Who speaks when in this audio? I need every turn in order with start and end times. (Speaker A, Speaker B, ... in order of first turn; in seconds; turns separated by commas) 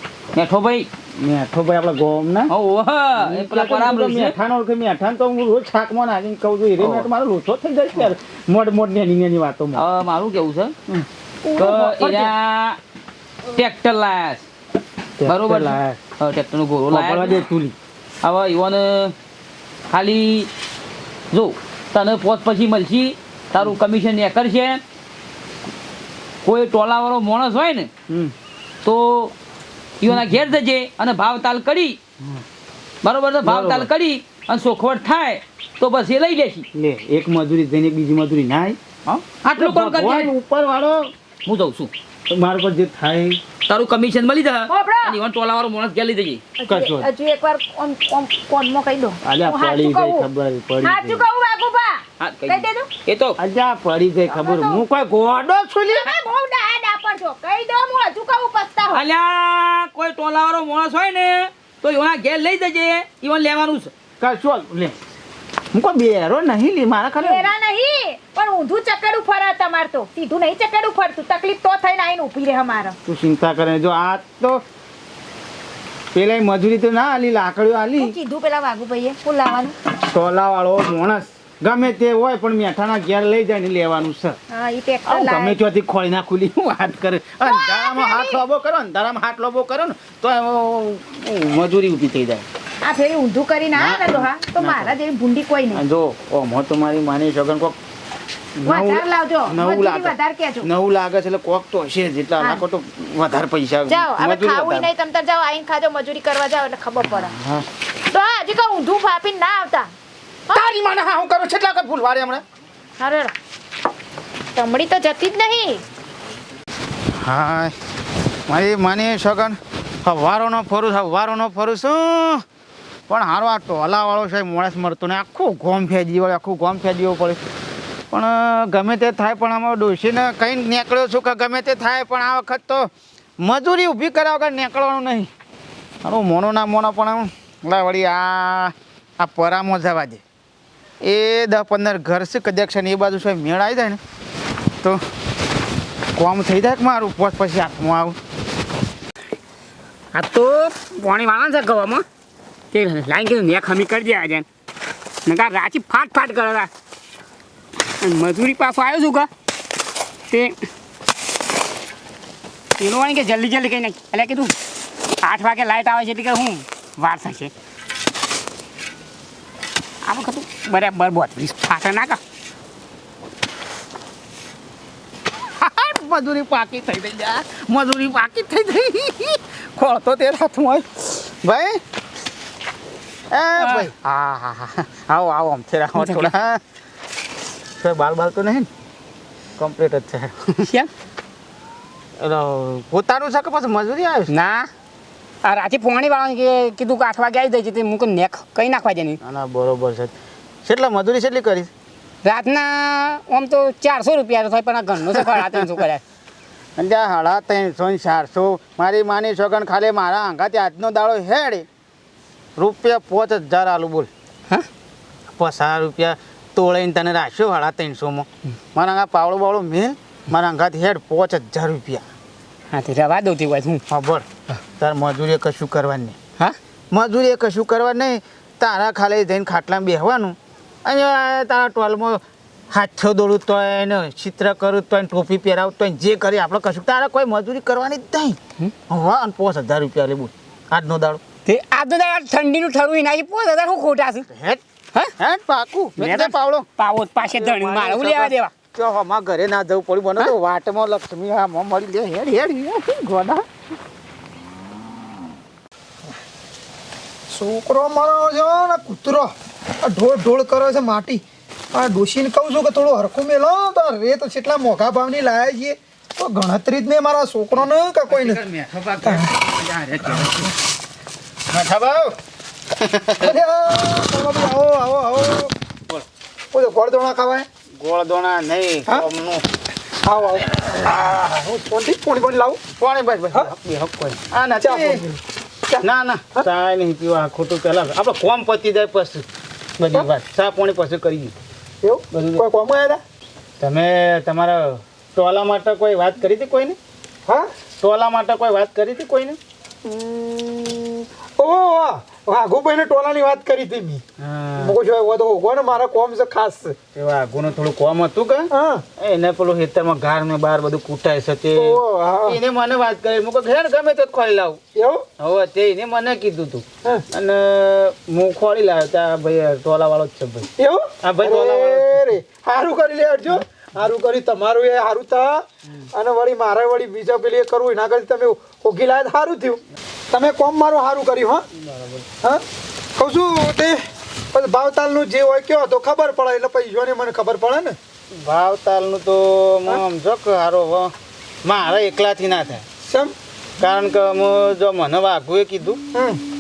Speaker A: 0.3-0.9, Speaker B: 1.2-2.5, Speaker A: 2.5-4.4, Speaker B: 3.2-9.8, Speaker A: 6.8-7.1, Speaker A: 9.8-10.7, Speaker C: 11.4-12.3, Speaker A: 11.6-12.8, Speaker A: 13.5-14.5, Speaker B: 15.2-16.0, Speaker A: 15.2-17.4, Speaker B: 16.9-17.8, Speaker A: 18.2-19.1, Speaker A: 19.9-20.5, Speaker A: 21.3-24.8, Speaker A: 26.4-27.9, Speaker B: 28.1-28.3, Speaker A: 28.8-29.3, Speaker A: 30.0-32.0, Speaker A: 33.0-36.7, Speaker B: 33.4-33.9, Speaker B: 36.7-38.8, Speaker A: 39.1-40.3, Speaker B: 39.6-41.1, Speaker A: 41.5-41.9, Speaker B: 42.3-43.4, Speaker A: 43.7-46.4, Speaker C: 44.7-45.2, Speaker C: 46.6-50.3, Speaker B: 46.7-47.1, Speaker B: 49.2-51.2, Speaker C: 50.8-52.9, Speaker A: 52.2-53.4, Speaker B: 53.4-56.1, Speaker C: 54.3-54.8, Speaker C: 55.9-59.0, Speaker A: 58.9-63.9, Speaker B: 64.2-65.0, Speaker B: 65.7-67.5, Speaker C: 67.2-73.0, Speaker B: 73.1-74.6, Speaker B: 76.2-78.1, Speaker C: 78.0-79.8, Speaker B: 80.0-84.4, Speaker C: 84.5-85.6, Speaker B: 85.1-92.5, Speaker C: 87.4-88.4, Speaker C: 92.8-95.8, Speaker B: 93.8-95.0, Speaker B: 95.7-97.8, Speaker B: 98.6-104.9, Speaker C: 98.7-100.7, Speaker C: 102.4-102.6, Speaker C: 103.9-107.3, Speaker B: 107.0-107.7, Speaker C: 108.1-109.9, Speaker B: 110.5-112.4, Speaker C: 113.0-113.3, Speaker C: 114.5-115.8, Speaker B: 117.2-117.8, Speaker B: 118.5-122.4, Speaker B: 123.1-127.4, Speaker B: 128.1-135.3, Speaker B: 136.0-140.2, Speaker B: 141.0-144.0, Speaker B: 146.2-148.2, Speaker D: 150.1-152.1, Speaker D: 152.7-154.5, Speaker D: 155.3-156.7, Speaker D: 158.0-159.3, Speaker D: 160.3-160.6, Speaker D: 162.8-164.6, Speaker D: 165.2-167.5, Speaker D: 170.0-172.2, Speaker B: 175.6-181.8, Speaker B: 183.3-186.6, Speaker D: 183.6-183.9, Speaker D: 185.9-186.3, Speaker B: 187.8-188.7, Speaker B: 189.6-190.7, Speaker D: 190.6-190.9, Speaker B: 192.2-194.3, Speaker D: 194.3-194.7, Speaker D: 195.4-199.2, Speaker B: 199.2-200.1, Speaker B: 200.7-201.7, Speaker D: 202.2-206.0, Speaker B: 205.0-205.8, Speaker B: 206.8-211.7, Speaker B: 212.6-214.1, Speaker B: 215.4-222.0, Speaker D: 222.7-223.8, Speaker B: 223.9-226.2, Speaker B: 226.9-241.2, Speaker D: 241.5-244.3, Speaker B: 244.3-244.6, Speaker B: 245.2-246.7, Speaker D: 246.0-248.5, Speaker B: 247.2-253.5, Speaker E: 257.3-261.2, Speaker E: 261.7-268.4, Speaker B: 267.5-270.5, Speaker E: 269.0-269.3, Speaker B: 271.5-272.2, Speaker B: 272.8-273.4, Speaker E: 273.2-275.5, Speaker E: 276.5-277.5, Speaker B: 277.8-279.5, Speaker E: 280.0-282.6, Speaker B: 282.8-285.0, Speaker E: 284.6-286.5, Speaker B: 285.8-289.2, Speaker B: 289.8-291.4, Speaker E: 291.8-293.0, Speaker B: 292.1-292.4, Speaker B: 293.6-296.8, Speaker B: 297.8-299.4, Speaker E: 299.9-304.0, Speaker B: 304.2-304.8, Speaker E: 304.6-306.8, Speaker B: 306.9-314.6, Speaker E: 308.5-308.8, Speaker E: 311.6-312.4, Speaker E: 314.8-315.1, Speaker B: 315.2-320.5, Speaker E: 320.6-331.4, Speaker B: 321.0-322.1, Speaker B: 331.6-332.1, Speaker E: 333.0-333.8, Speaker E: 334.3-337.8, Speaker B: 338.1-340.9, Speaker B: 341.4-342.6, Speaker E: 342.8-343.1, Speaker B: 343.6-345.8, Speaker E: 345.9-346.2